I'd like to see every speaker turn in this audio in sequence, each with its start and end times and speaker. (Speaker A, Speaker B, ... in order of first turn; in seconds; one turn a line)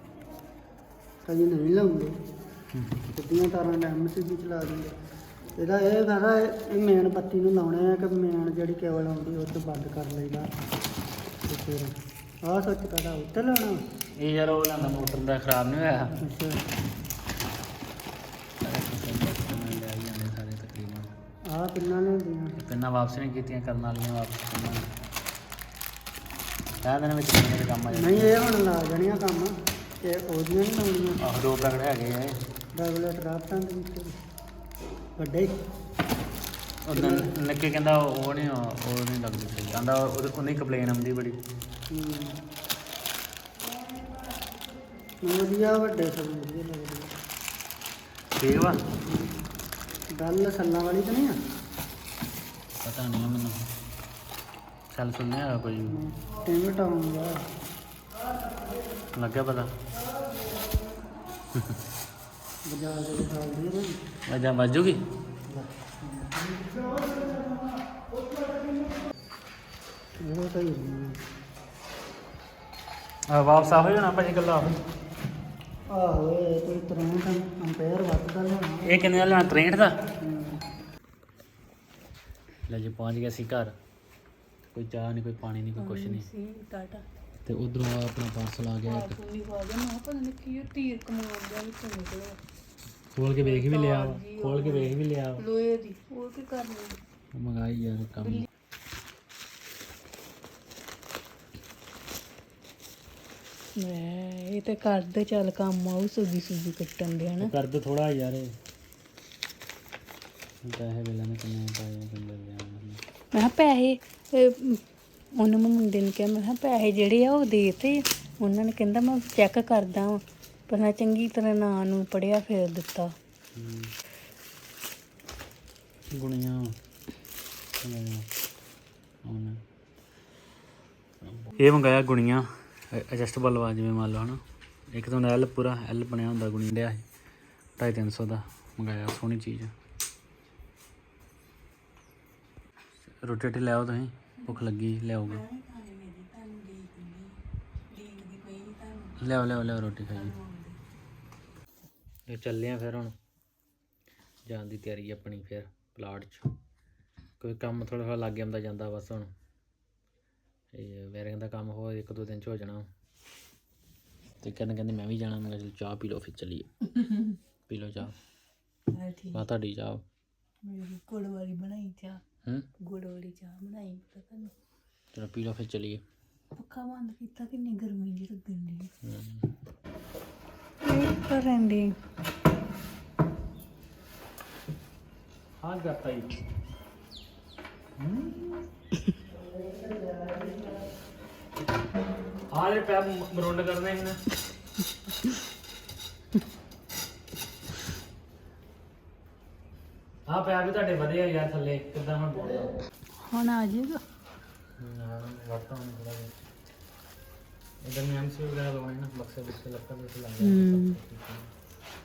Speaker A: 1.2-2.1
Speaker B: 2.7-3.1
Speaker A: 3.1-4.9
Speaker A: 5.6-10.5
Speaker A: 11.5-13.8
Speaker B: 14.2-16.2
Speaker A: 16.2-16.6
Speaker B: 18.6-21.1
Speaker A: 21.5-22.6
Speaker B: 22.6-24.9
Speaker B: 26.8-28.4
Speaker A: 27.9-31.2
Speaker B: 31.2-32.4
Speaker A: 32.8-34.2
Speaker A: 35.2-35.6
Speaker B: 36.9-41.4
Speaker A: 36.9-37.3
Speaker A: 41.9-42.4
Speaker A: 45.2-47.1
Speaker B: 48.4-48.8
Speaker A: 49.0-49.3
Speaker A: 50.1-51.4
Speaker B: 52.8-53.6
Speaker B: 54.9-56.0
Speaker A: 55.9-57.4
Speaker B: 59.1-59.7
Speaker A: 62.6-64.0
Speaker B: 64.3-65.0
Speaker A: 65.5-67.5
Speaker A: 70.2-71.2
Speaker B: 73.3-74.8
Speaker A: 75.9-79.2
Speaker B: 78.8-79.9
Speaker A: 80.2-80.6
Speaker B: 82.7-83.7
Speaker B: 84.7-86.2
Speaker C: 85.8-87.1
Speaker B: 87.5-89.2
Speaker C: 88.8-92.4
Speaker B: 93.1-95.4
Speaker C: 93.4-97.0
Speaker B: 97.3-98.5
Speaker C: 103.8-107.5
Speaker B: 107.4-108.5
Speaker B: 110.6-113.0
Speaker C: 113.3-114.8
Speaker C: 115.3-123.1
Speaker B: 123.5-123.9
Speaker B: 126.1-126.8
Speaker B: 127.8-128.3
Speaker B: 129.2-129.6
Speaker B: 131.4-137.1
Speaker B: 137.8-139.7
Speaker B: 143.2-145.5
Speaker C: 145.2-149.2
Speaker B: 149.2-150.3
Speaker C: 150.0-150.8
Speaker B: 152.3-153.1
Speaker B: 154.5-156.4
Speaker B: 157.4-159.3
Speaker B: 160.7-162.9
Speaker B: 164.4-166.7
Speaker C: 167.0-167.4
Speaker B: 167.7-168.1
Speaker C: 168.9-169.4
Speaker B: 169.3-170.0
Speaker C: 170.6-172.2
Speaker C: 172.8-174.5
Speaker B: 175.1-176.0
Speaker C: 176.5-178.9
Speaker B: 179.0-179.5
Speaker C: 180.8-182.0
Speaker B: 185.6-186.4
Speaker B: 188.0-188.6
Speaker A: 189.4-190.8
Speaker B: 192.5-194.2
Speaker B: 200.3-202.7
Speaker C: 203.2-204.0
Speaker B: 204.8-206.5
Speaker B: 207.8-211.5
Speaker C: 210.4-211.0